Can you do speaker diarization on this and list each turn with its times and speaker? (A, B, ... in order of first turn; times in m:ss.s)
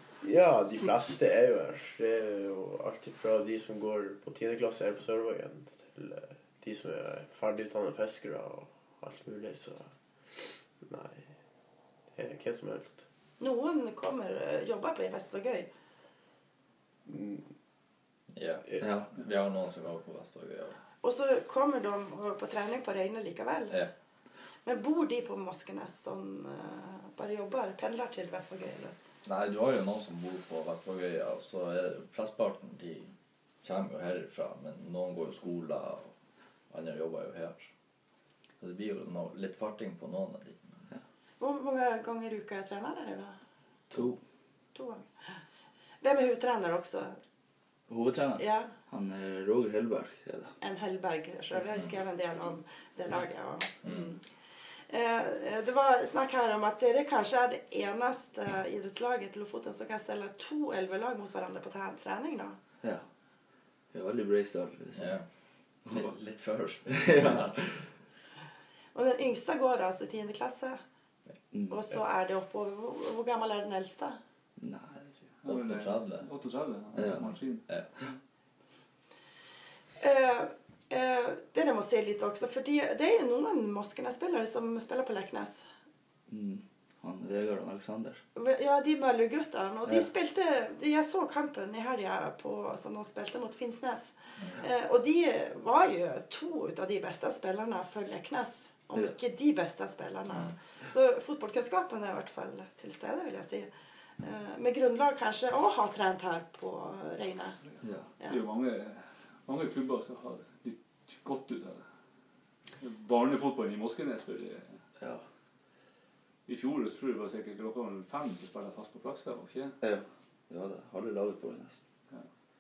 0:00.2-0:09.9 A
0:10.8-0:11.3 A
0:12.1-0:13.0 A
0:13.4-0:15.7 B
0:17.1-0:17.4 A
0:18.3-0:20.8 C
0:21.0-0:23.8 B
0:24.6-0:28.9 B
0:29.2-0:33.1 C
0:33.6-0:36.1 C
0:36.7-0:37.7 C
0:38.6-0:40.9 C
0:41.4-0:43.4 B
0:43.9-0:44.2 D
0:44.8-0:45.4 B
0:46.0-0:47.2 B
0:47.9-0:50.5 D
0:48.4-0:48.7 B
0:50.6-0:54.2 B
0:54.9-1:02.6 B
1:03.9-1:05.1 D
1:05.0-1:05.2 C
1:05.9-1:07.8 C
1:07.0-1:07.6 D
1:08.9-1:10.8 B
1:11.5-1:11.8 D
1:11.7-1:14.2 B
1:14.6-1:15.0 D
1:15.4-1:17.7 E
1:15.4-1:16.3 C
1:17.0-1:17.4 D
1:20.0-1:25.7 B
1:26.3-1:28.2 D
1:28.4-1:47.6 B
1:47.8-1:48.1 D
1:48.3-1:51.8 E
1:52.8-1:54.8 E
1:56.5-1:59.8 E
1:59.8-2:01.8 D